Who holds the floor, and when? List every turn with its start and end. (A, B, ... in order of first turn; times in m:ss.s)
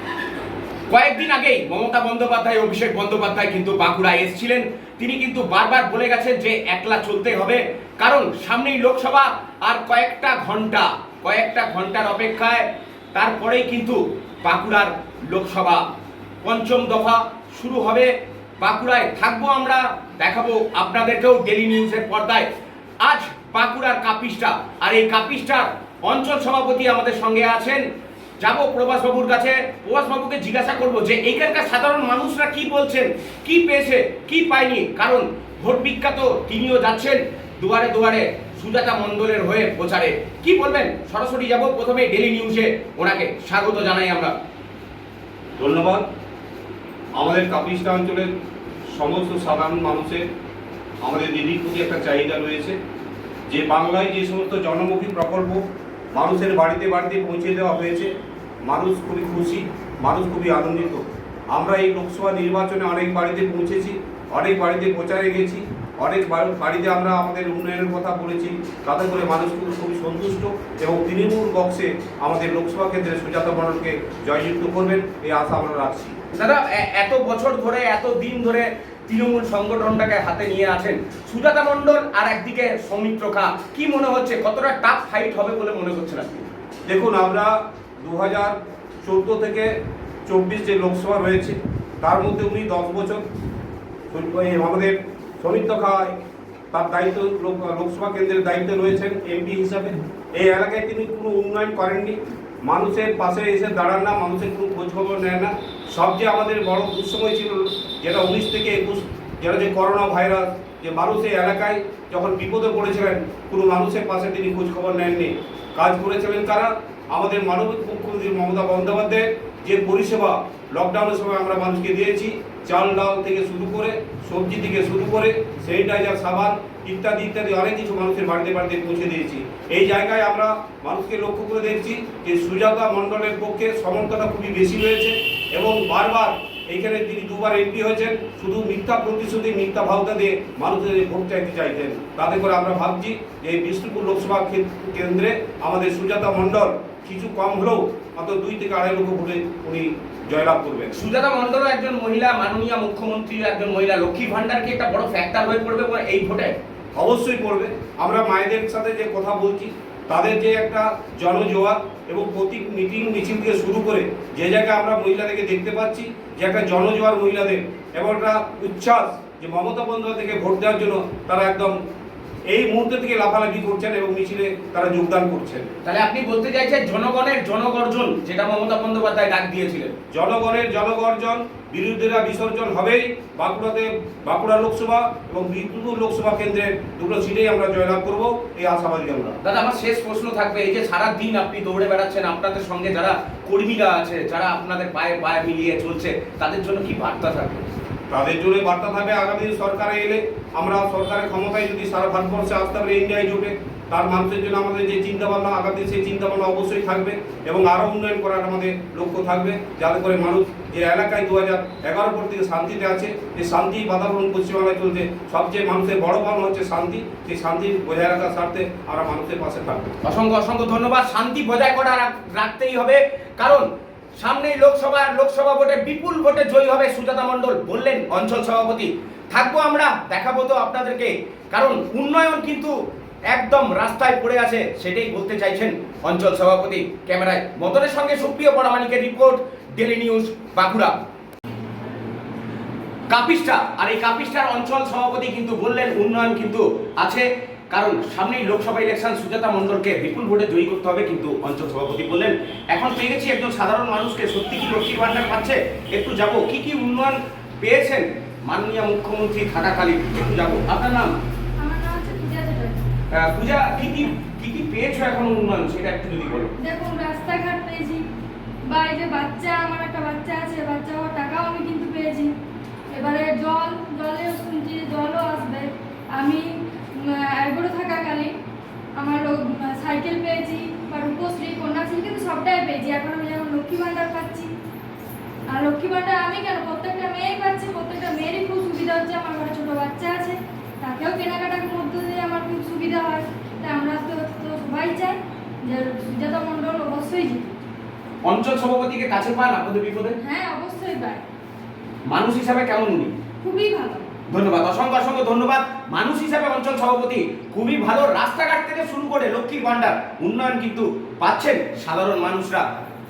0:00.9-0:15.8 A
0:16.4-0:22.5 A
0:23.0-0:27.8 A
0:28.4-0:44.3 A
0:45.6-0:46.0 B
0:47.2-0:48.3 B
0:48.9-0:50.2 B
0:51.0-0:52.8 B
0:53.5-0:55.6 B
0:56.1-0:58.1 B
0:58.6-1:16.2 B
1:16.3-1:26.5 A
1:26.9-1:29.7 B
1:30.3-1:33.2 B
1:34.1-1:36.1 B
1:36.7-2:30.9 B
2:30.9-2:36.5 A
2:37.0-2:51.7 B
2:52.5-2:55.7 B
2:55.8-2:59.9 A
3:00.1-3:09.4 B
3:09.4-3:17.7 A
3:18.1-3:39.9 B
3:40.0-3:43.6 A
3:44.2-3:52.7 A
3:53.3-4:00.9 A
4:03.1-4:21.1 A
4:21.6-4:22.8 C
4:23.1-4:26.5 A
4:26.6-4:28.0 C
4:28.7-4:32.3 C
4:32.9-4:38.3 C
4:39.0-4:44.5 C
4:45.5-4:57.5 C
4:58.2-5:00.2 A
5:00.2-5:01.2 C
5:02.1-5:03.1 A
5:03.4-5:04.1 C
5:04.3-5:12.6 A